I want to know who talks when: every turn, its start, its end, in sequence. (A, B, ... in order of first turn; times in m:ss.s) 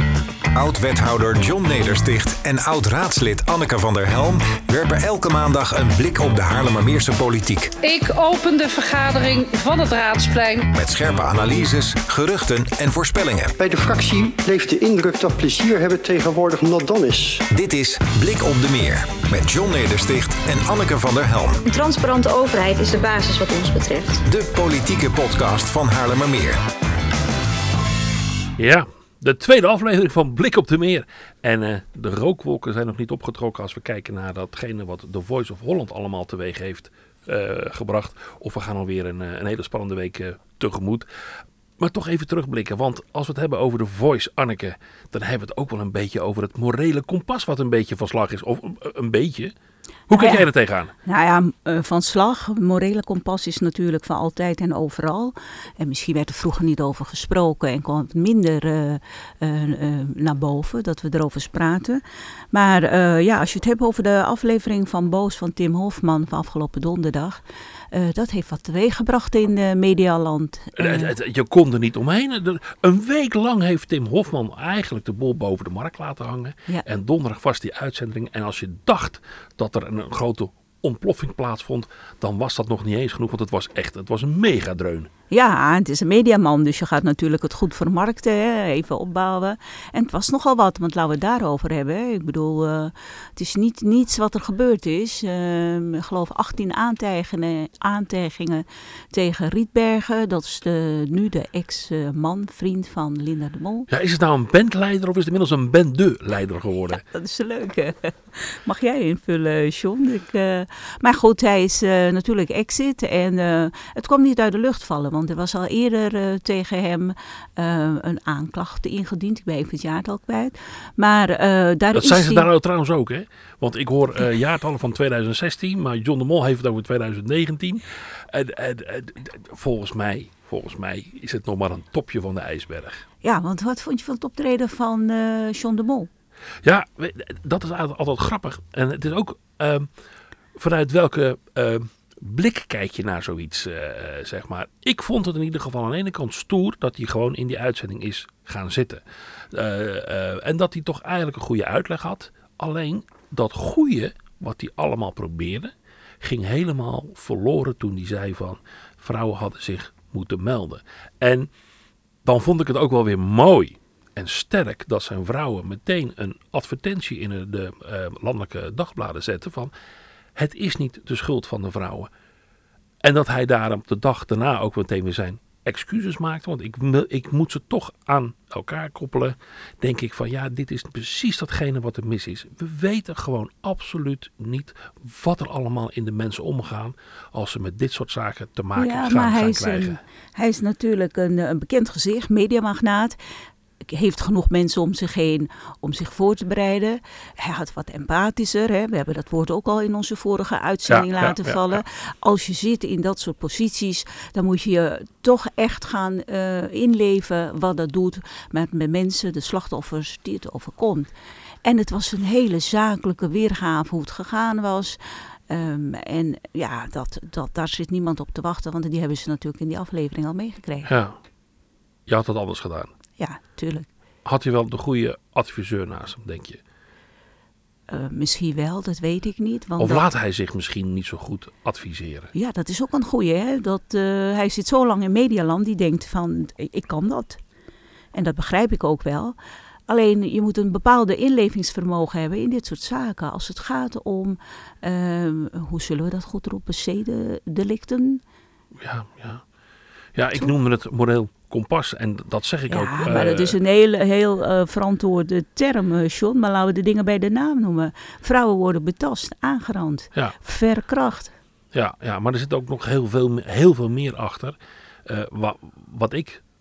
0:00.5-0:07.7 A
0:07.8-0:10.7 B
0:10.7-0:13.6 A
0:13.6-0:17.4 C
0:17.5-0:21.6 A
0:21.6-0:24.2 D
0:24.3-0:26.6 A
0:28.6-0:41.1 E
0:41.8-0:49.5 E
0:50.1-0:50.9 E
0:50.1-0:50.5 F
0:51.0-1:07.4 F
1:07.9-1:11.1 F
1:10.8-1:25.1 E
1:25.3-1:43.9 F
1:43.9-1:47.0 E
1:46.9-2:02.5 F
2:02.0-2:13.0 E
2:13.2-2:16.1 F
2:16.6-2:19.9 E
2:20.6-2:41.5 E
2:42.2-2:49.7 E
2:50.4-2:52.1 E
2:53.0-3:10.0 E
3:08.8-3:13.2 F
3:13.9-3:31.1 F
3:20.9-3:21.8 E
3:31.6-3:40.9 F
3:40.8-3:41.2 E
3:42.1-3:42.9 E
3:43.2-3:43.9 F
3:44.2-3:46.6 E
3:47.9-3:50.1 F
3:49.8-3:52.3 E
3:52.3-3:57.4 F
3:58.1-3:59.4 F
3:59.9-4:08.2 F
4:08.8-4:09.4 E
4:10.2-4:13.6 E
4:12.7-4:21.4 F
4:21.7-4:26.4 E